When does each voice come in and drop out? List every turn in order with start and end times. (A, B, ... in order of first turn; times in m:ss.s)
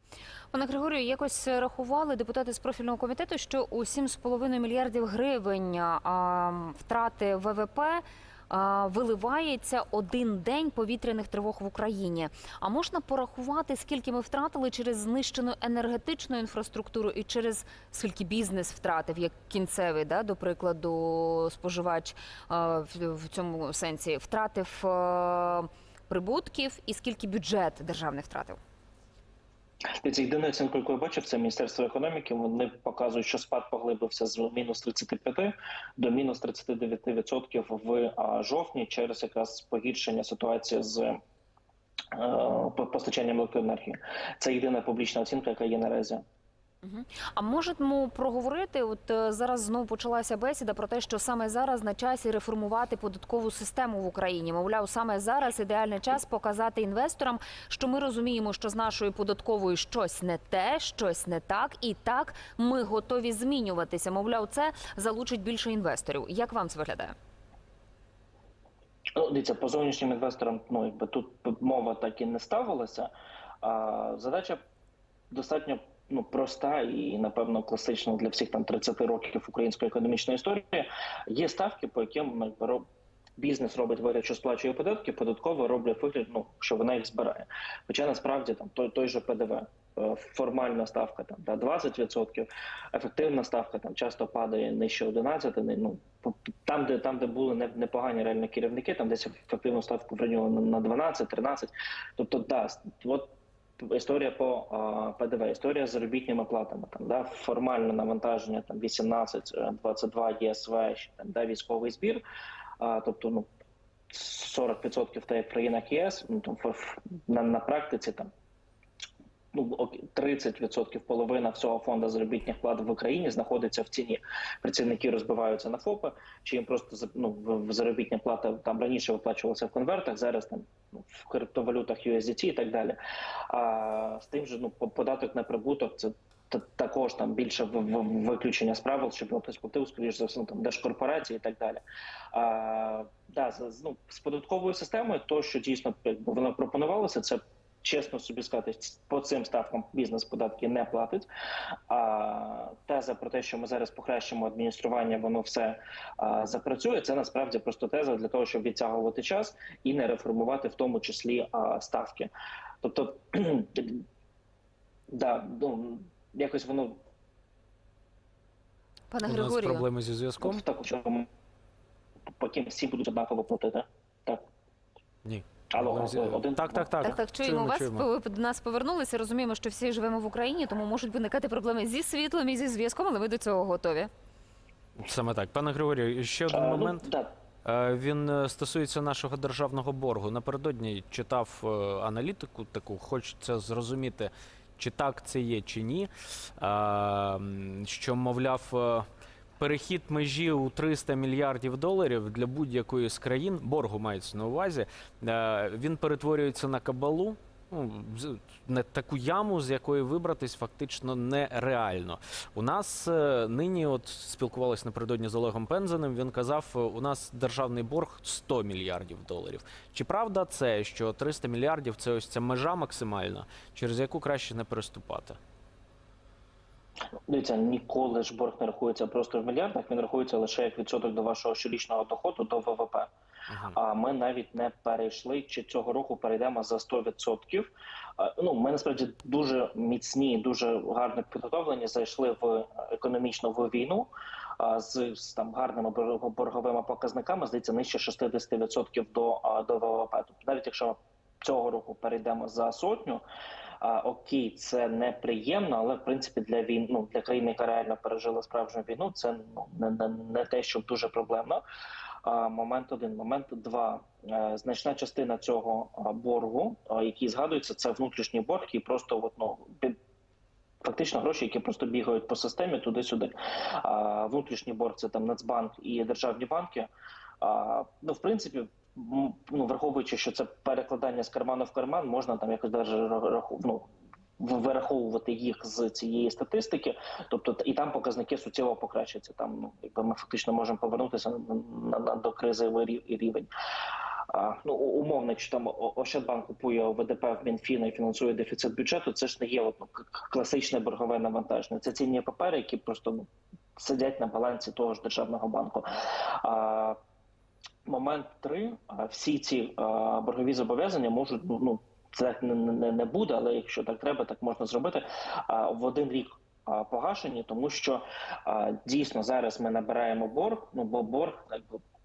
0:00.5-0:28.6 A
0:30.0-0:41.2 B
0:42.1-0:46.2 B
0:46.8-1:07.1 A
1:09.1-1:13.1 B
1:13.6-1:14.6 B
1:15.3-1:22.8 B
1:23.4-1:52.2 B
1:52.8-1:53.5 B
1:54.1-1:58.3 B
1:59.5-2:31.3 B
2:31.9-2:42.3 B
2:42.8-2:44.0 B
2:45.1-2:47.0 B
2:49.1-2:49.9 A
2:49.2-2:50.6 C
2:50.4-2:51.3 B
2:52.3-2:54.4 B
2:55.2-2:58.1 C
2:55.7-2:56.9 B
2:57.0-3:04.1 A
3:05.0-3:07.1 C
3:06.5-3:07.3 B
3:07.6-3:19.0 C
3:19.6-3:45.4 C
3:47.3-3:53.1 B
3:53.5-3:53.8 C
3:53.7-4:13.2 B
4:13.8-4:21.6 B
4:22.2-4:30.0 B
4:30.8-4:36.9 B
4:37.4-4:53.5 B
4:54.3-5:07.0 B
5:07.8-5:21.8 B